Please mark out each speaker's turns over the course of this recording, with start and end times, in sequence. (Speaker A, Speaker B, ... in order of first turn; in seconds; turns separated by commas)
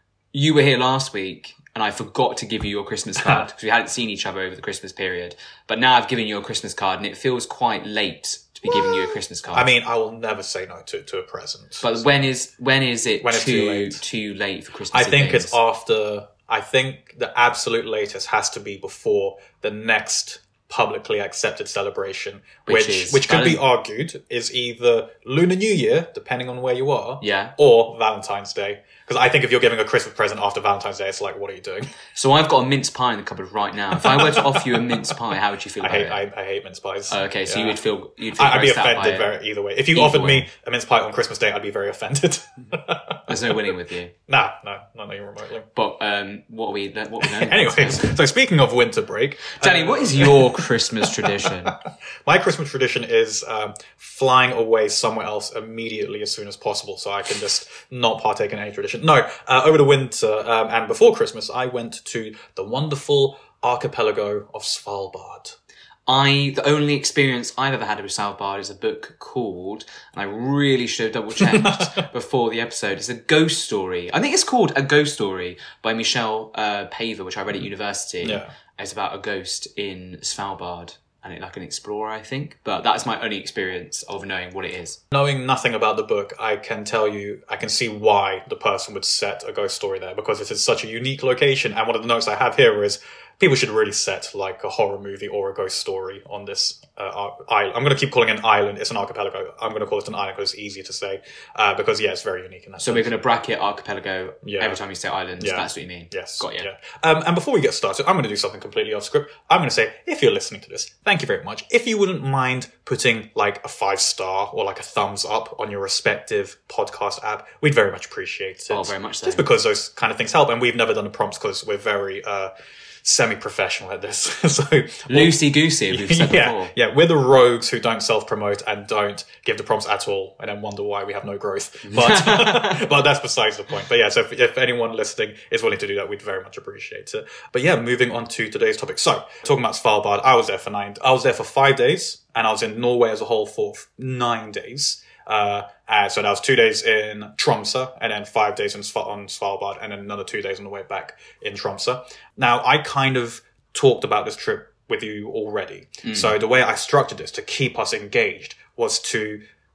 Speaker A: 0.3-9.7, Speaker B: 9.5-12.0, Speaker A: 11.8-15.6, Speaker B: 13.2-14.0, Speaker B: 14.9-32.0, Speaker A: 22.6-23.6, Speaker A: 27.2-27.5, Speaker A: 32.1-36.2, Speaker B: 34.0-35.1, Speaker B: 35.8-37.8, Speaker A: 37.1-39.3, Speaker B: 38.3-43.3, Speaker A: 39.9-40.5, Speaker A: 43.3-44.1, Speaker B: 44.3-45.6, Speaker A: 45.7-48.1, Speaker B: 47.2-51.7, Speaker A: 49.6-51.8, Speaker B: 52.2-65.5, Speaker A: 66.1-85.0, Speaker B: 71.4-72.0, Speaker B: 78.2-78.5, Speaker B: 85.1-103.1, Speaker A: 102.8-106.7, Speaker B: 104.4-104.8, Speaker B: 105.4-122.5, Speaker A: 118.7-119.5, Speaker B: 123.0-159.4, Speaker A: 125.1-126.7, Speaker A: 131.8-132.9, Speaker A: 156.0-156.3